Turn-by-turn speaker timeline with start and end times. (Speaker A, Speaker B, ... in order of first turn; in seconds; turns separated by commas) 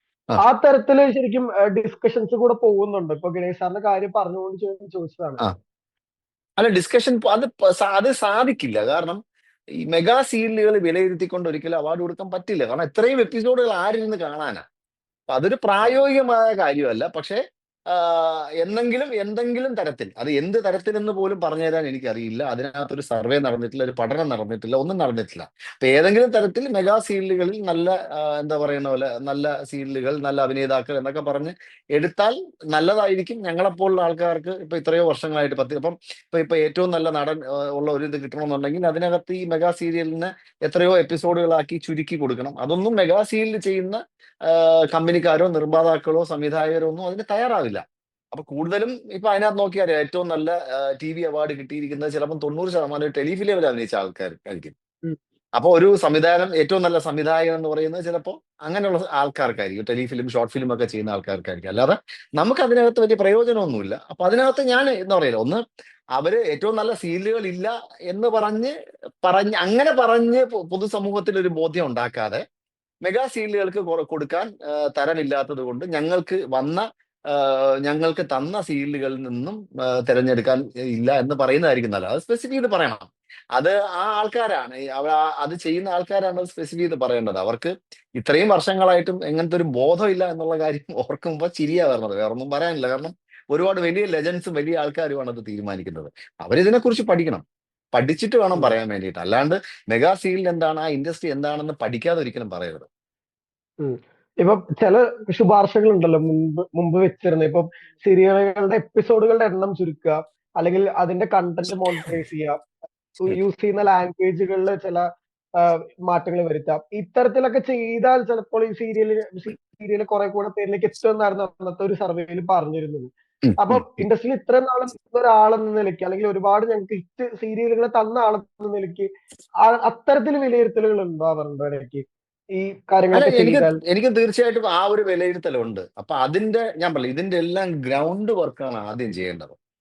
Speaker A: 0.4-5.4, Speaker B: 6.6-9.2, Speaker B: 9.8-14.6, Speaker B: 15.3-17.4, Speaker A: 15.8-16.1, Speaker B: 17.9-47.8, Speaker B: 48.3-54.7, Speaker B: 55.6-65.6, Speaker B: 66.2-68.7, Speaker B: 69.2-72.4, Speaker B: 73.1-102.9, Speaker A: 103.8-112.6, Speaker A: 113.2-115.1, Speaker A: 115.6-129.1, Speaker B: 123.5-124.0, Speaker A: 129.6-133.8, Speaker B: 133.1-139.6